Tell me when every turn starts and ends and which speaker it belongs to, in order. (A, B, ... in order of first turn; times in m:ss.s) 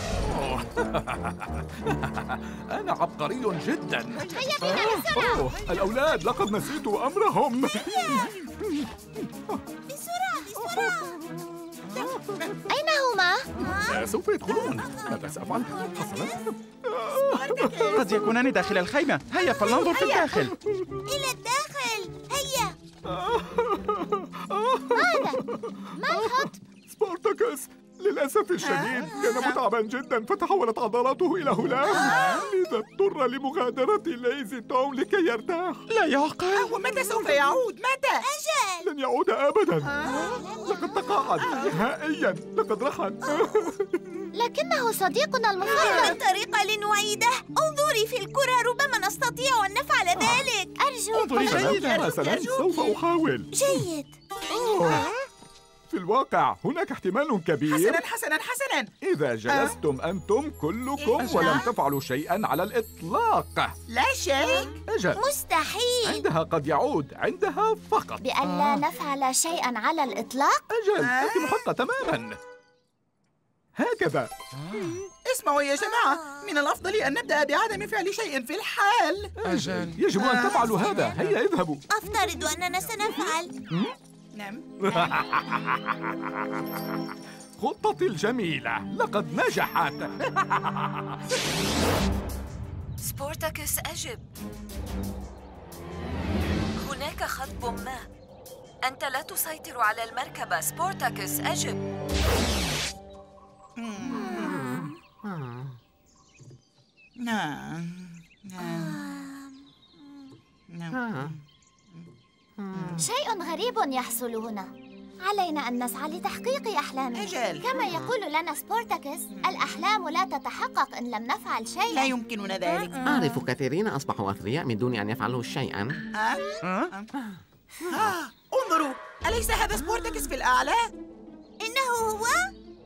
0:00.3-0:08.9 A
0:04.3-0:05.5 B
0:07.8-0:08.3 C
0:09.9-0:11.3 C
0:10.6-0:11.0 A
0:12.7-0:13.5 B
0:13.6-0:16.4 C
0:13.9-0:18.1 A
0:17.3-0:18.3 D
0:18.0-0:20.5 E
0:19.9-0:20.3 C
0:21.1-0:22.7 C
0:23.1-0:35.8 A
0:24.9-0:25.4 B
0:25.9-0:26.5 B
0:28.6-0:29.6 D
0:31.9-0:32.5 D
0:35.9-0:36.7 E
0:36.5-0:38.2 D
0:38.2-0:38.9 C
0:38.8-0:40.0 A
0:40.0-0:40.3 D
0:40.0-0:41.0 B
0:40.1-0:40.4 C
0:40.6-0:44.0 A
0:41.5-0:41.8 D
0:44.4-0:46.2 B
0:45.7-0:50.7 C
0:50.2-0:50.5 A
0:50.8-0:51.7 B
0:51.2-0:52.1 E
0:51.4-0:53.5 A
0:51.5-0:52.8 D
0:53.5-0:55.0 C
0:54.6-0:55.1 A
0:55.9-0:58.0 A
0:57.7-0:58.9 D
0:59.0-1:03.7 A
0:59.5-0:59.7 D
1:01.2-1:01.7 D
1:01.2-1:01.6 E
1:03.9-1:04.8 D
1:04.9-1:05.2 A
1:05.2-1:06.2 C
1:06.0-1:08.2 A
1:08.2-1:10.6 B
1:08.5-1:08.8 E
1:10.7-1:12.4 A
1:11.0-1:11.6 D
1:13.8-1:14.3 A
1:14.6-1:15.0 E
1:15.3-1:19.4 D
1:19.4-1:21.9 A
1:19.5-1:20.0 E
1:20.2-1:21.0 D
1:21.9-1:23.5 C
1:24.4-1:25.0 D
1:24.8-1:26.2 A
1:27.6-1:31.2 A
1:33.0-1:34.2 F
1:36.8-1:38.1 F
1:38.8-1:41.8 F
1:43.8-1:44.6 D
1:44.1-1:45.8 G
1:47.2-1:49.0 D
1:48.6-1:49.4 B
1:50.7-1:51.4 D
1:50.9-1:51.3 G
1:52.6-1:53.0 G
1:53.0-1:54.7 B
1:55.2-2:02.1 B
1:57.2-1:57.7 D
1:57.7-1:58.1 G
2:01.9-2:03.4 D
2:03.0-2:06.0 G
2:06.1-2:07.1 D
2:06.6-2:06.9 E
2:07.9-2:10.9 D
2:11.6-2:12.5 C